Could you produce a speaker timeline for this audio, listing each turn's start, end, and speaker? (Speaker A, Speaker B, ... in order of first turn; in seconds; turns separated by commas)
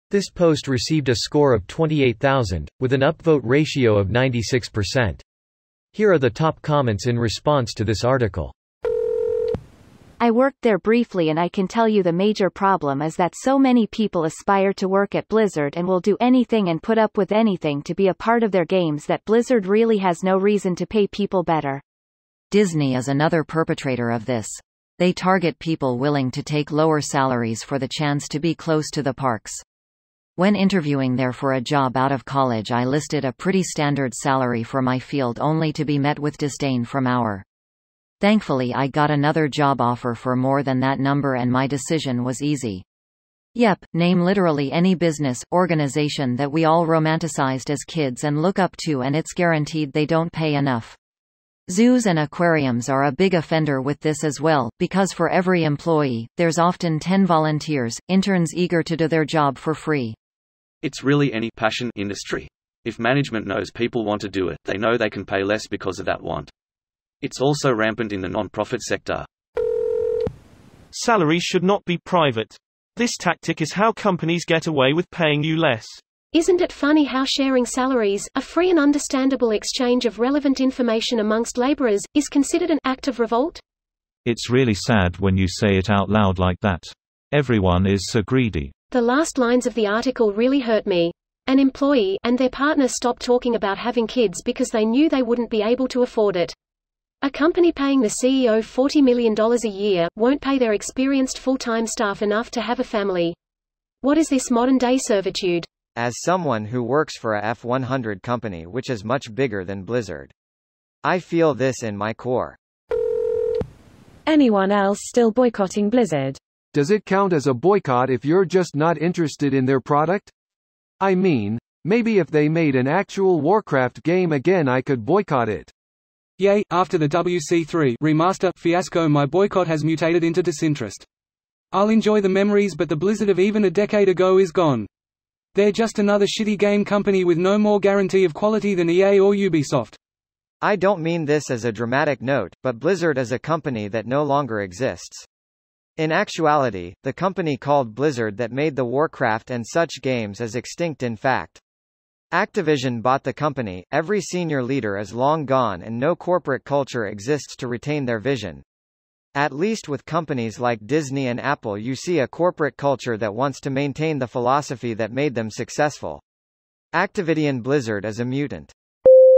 Speaker A: 0.1-5.2, Speaker A: 5.9-8.5, Speaker B: 10.2-21.8, Speaker C: 22.5-29.6, Speaker C: 30.4-37.4, Speaker C: 38.2-42.8, Speaker C: 43.5-51.0, Speaker C: 51.7-60.2, Speaker D: 60.8-66.5, Speaker D: 67.2-69.3, Speaker E: 70.9-76.0, Speaker F: 76.3-83.6, Speaker G: 84.2-88.7, Speaker F: 88.9-96.5, Speaker F: 97.2-103.4, Speaker F: 104.0-105.7, Speaker H: 106.0-110.3, Speaker H: 111.0-112.6, Speaker I: 114.3-116.4, Speaker J: 116.7-120.3, Speaker J: 121.0-125.7, Speaker K: 126.4-131.1, Speaker K: 131.7-134.9, Speaker K: 135.6-140.0, Speaker H: 140.6-145.3, Speaker H: 146.0-151.6, Speaker H: 152.3-158.6, Speaker H: 159.3-166.2, Speaker H: 166.9-168.7